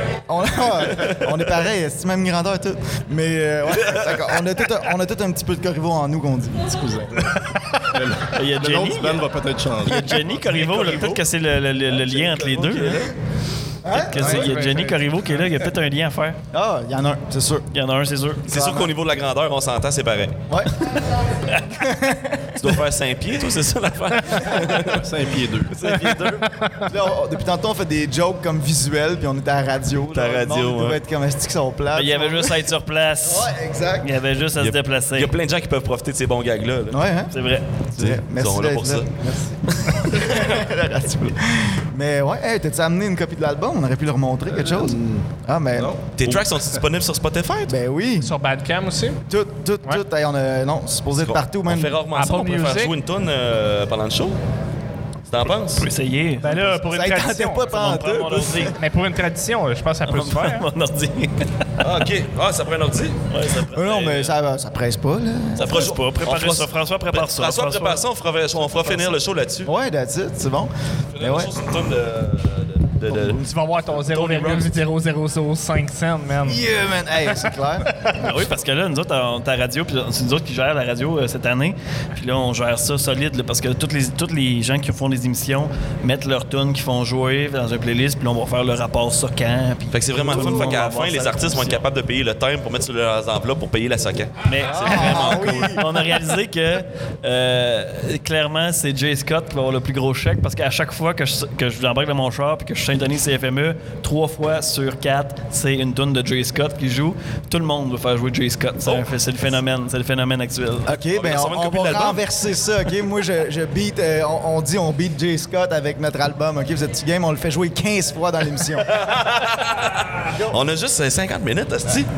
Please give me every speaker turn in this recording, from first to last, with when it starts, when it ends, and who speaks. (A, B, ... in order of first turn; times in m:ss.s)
0:00.3-0:06.8 A
0:03.8-0:04.3 B
0:06.7-0:11.1 C
0:08.3-0:09.2 D
0:09.8-0:13.0 D
0:10.8-0:11.1 B
0:12.1-0:13.1 B
0:13.8-0:14.7 A
0:13.9-0:16.4 D
0:14.2-0:14.9 E
0:16.5-0:17.7 A
0:17.7-0:18.5 D
0:18.5-0:18.9 A
0:18.5-0:20.4 B
0:20.5-0:20.8 A
0:21.7-0:22.8 A
0:22.6-0:25.1 B
0:24.9-0:25.8 C
0:25.7-0:26.6 B
0:26.2-0:26.9 E
0:26.9-0:32.6 A
0:30.1-0:31.0 B
0:31.9-0:35.3 D
0:33.2-0:34.1 A
0:34.6-0:37.0 B
0:36.9-0:37.3 A
0:37.3-0:37.7 D
0:37.9-0:39.1 A
0:38.0-0:39.1 B
0:40.0-0:46.0 A
0:44.5-0:46.8 C
0:46.1-0:47.8 B
0:47.7-0:48.3 A
0:48.2-0:49.2 E
0:49.3-0:52.0 A
0:51.2-0:54.4 B
0:52.1-0:52.9 E
0:55.3-0:55.9 B
0:55.7-0:56.6 D
0:56.4-0:57.7 E
0:56.4-0:58.7 A
0:57.7-0:58.8 D
0:58.8-1:00.7 E
1:00.1-1:01.7 D
1:01.8-1:03.2 B
1:03.3-1:04.3 D
1:03.7-1:05.9 A
1:05.6-1:08.0 D
1:05.6-1:09.7 B
1:08.8-1:09.0 D
1:09.6-1:11.5 A
1:11.2-1:13.4 B
1:13.1-1:13.4 A
1:13.4-1:16.6 E
1:14.0-1:14.8 B
1:16.4-1:17.9 A
1:18.1-1:31.8 D
1:29.9-1:35.8 B
1:30.3-1:30.8 A
1:34.4-1:51.0 D
1:34.7-1:35.8 A
1:50.9-1:59.0 A
1:51.1-1:52.3 B
1:58.9-2:02.1 B